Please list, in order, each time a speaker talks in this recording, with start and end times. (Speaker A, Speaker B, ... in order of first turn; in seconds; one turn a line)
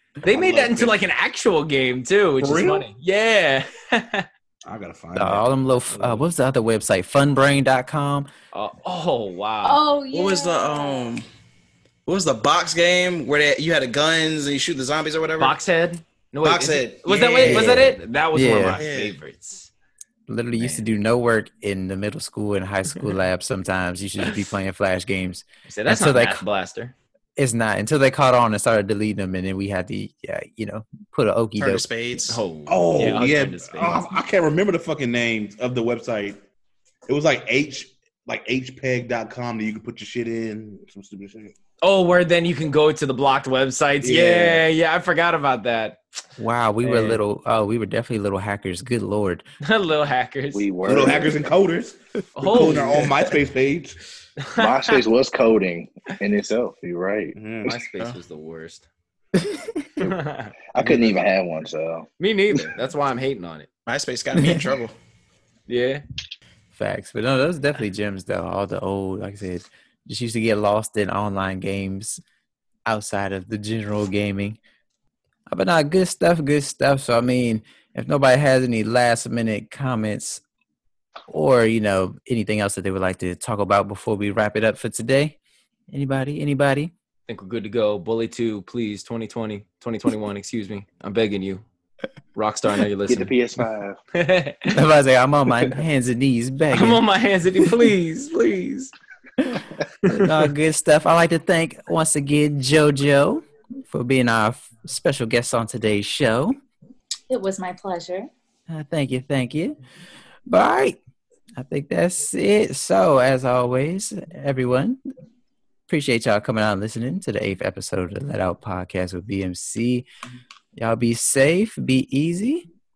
Speaker A: 0.2-4.3
Speaker B: 0.3-0.9
Speaker B: 2.4-2.9
Speaker B: 4.6-6.2
Speaker C: 5.2-8.3
Speaker A: 8.5-9.8
Speaker D: 9.6-11.1
Speaker E: 10.1-11.2
Speaker E: 12.1-15.6
Speaker A: 15.4-19.7
Speaker E: 16.4-17.7
Speaker C: 17.4-18.8
Speaker E: 18.7-19.1
Speaker C: 20.3-26.4
Speaker A: 20.6-20.9
Speaker A: 25.7-26.9
Speaker C: 27.4-31.8
Speaker E: 31.6-32.4
Speaker A: 32.3-34.1
Speaker B: 32.6-36.4
Speaker B: 37.1-41.5
Speaker A: 41.8-46.0
Speaker B: 44.0-44.6
Speaker C: 46.4-49.5
Speaker A: 46.8-47.2
Speaker A: 49.6-50.7
Speaker F: 50.5-51.5
Speaker B: 50.8-54.0
Speaker A: 52.4-53.2
Speaker A: 54.4-55.0
Speaker F: 54.6-57.4
Speaker B: 57.4-57.7
Speaker A: 57.6-58.9
Speaker A: 60.0-60.5
Speaker F: 60.7-62.6
Speaker B: 60.8-61.2
Speaker A: 62.2-63.7
Speaker E: 63.9-64.9
Speaker C: 64.3-64.7
Speaker A: 65.7-66.0
Speaker C: 66.7-72.2
Speaker C: 72.8-74.6
Speaker C: 75.5-80.4
Speaker C: 81.3-85.4
Speaker C: 85.9-86.9
Speaker A: 87.3-91.6
Speaker A: 92.3-93.3
Speaker F: 93.1-94.0
Speaker A: 94.1-94.8
Speaker C: 94.7-97.0
Speaker A: 96.7-98.9
Speaker C: 100.1-106.6
Speaker D: 107.3-108.3
Speaker C: 108.7-109.8
Speaker C: 110.5-111.0
Speaker C: 111.5-115.0
Speaker C: 115.9-120.1
Speaker C: 120.8-122.7